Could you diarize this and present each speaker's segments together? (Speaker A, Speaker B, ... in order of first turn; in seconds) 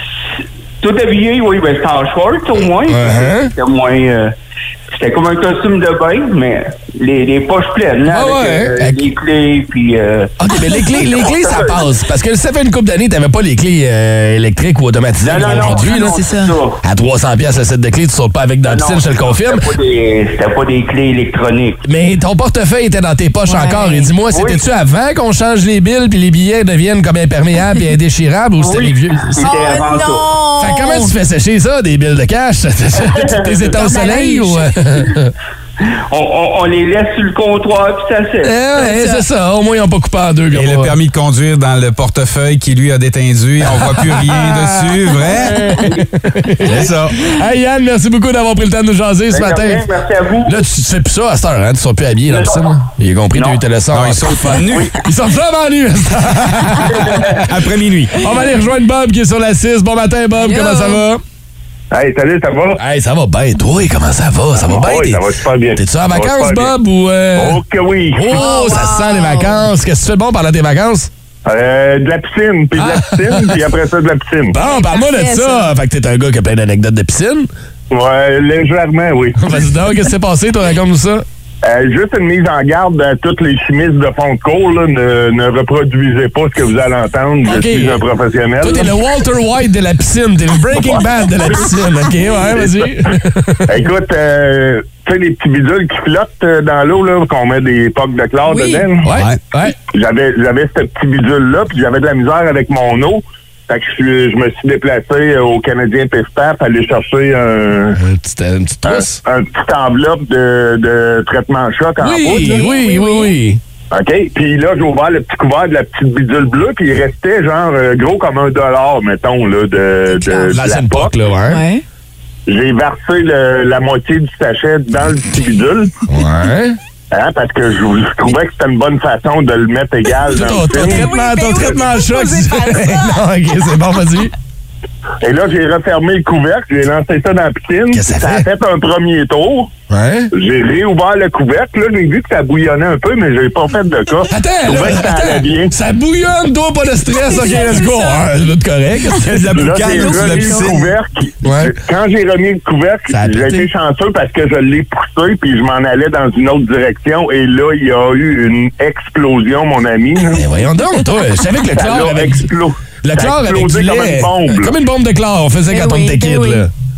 Speaker A: 0.8-4.3, 4.9-11.8, 15.2-16.8, 18.6-21.8, 24.3-24.6, 28.6-30.3, 33.1-33.5, 36.1-38.5, 45.8-46.1, 49.3-50.6, 52.3-52.7, 53.3-53.6
Speaker B: 2.6-3.5, 8.1-9.0, 10.4-16.1, 16.8-19.6, 21.8-29.4, 30.6-35.3, 38.4-40.9, 43.7-49.8, 50.4-57.4, 58.2-61.2, 62.8-65.2, 65.7-67.6, 68.1-71.1, 72.8-73.6, 74.5-77.5, 79.4-81.2, 87.5-88.0, 88.6-93.7, 99.0-99.7, 108.0-109.2, 112.0-113.6, 120.5-121.6, 126.1-126.8, 130.3-134.3, 137.9-138.4, 139.9-140.3, 144.3-149.6, 151.4-151.7, 153.1-153.7, 160.3-162.4, 163.0-166.7
Speaker C: 15.5-16.5, 23.5-24.1, 29.4-31.1, 33.6-34.7, 38.8-39.2, 60.4-61.0, 68.3-69.6, 74.6-75.7, 98.5-98.8, 112.3-113.3, 120.1-120.5, 121.5-121.8, 130.8-133.0, 147.2-148.2, 149.8-150.7, 165.7-166.6
Speaker D: 40.5-45.5, 46.6-47.2, 53.9-54.9, 57.1-58.2, 99.1-99.4, 149.2-150.9
Speaker E: 61.9-62.8, 64.6-66.7, 67.3-68.5, 71.5-74.5, 77.9-79.6, 81.7-89.0, 92.5-92.8, 93.7-99.1, 99.9-108.0, 108.8-112.7, 113.9-121.1, 122.5-125.9, 127.1-131.1, 135.2-139.7, 140.3-145.7, 149.5-160.4, 161.7-164.8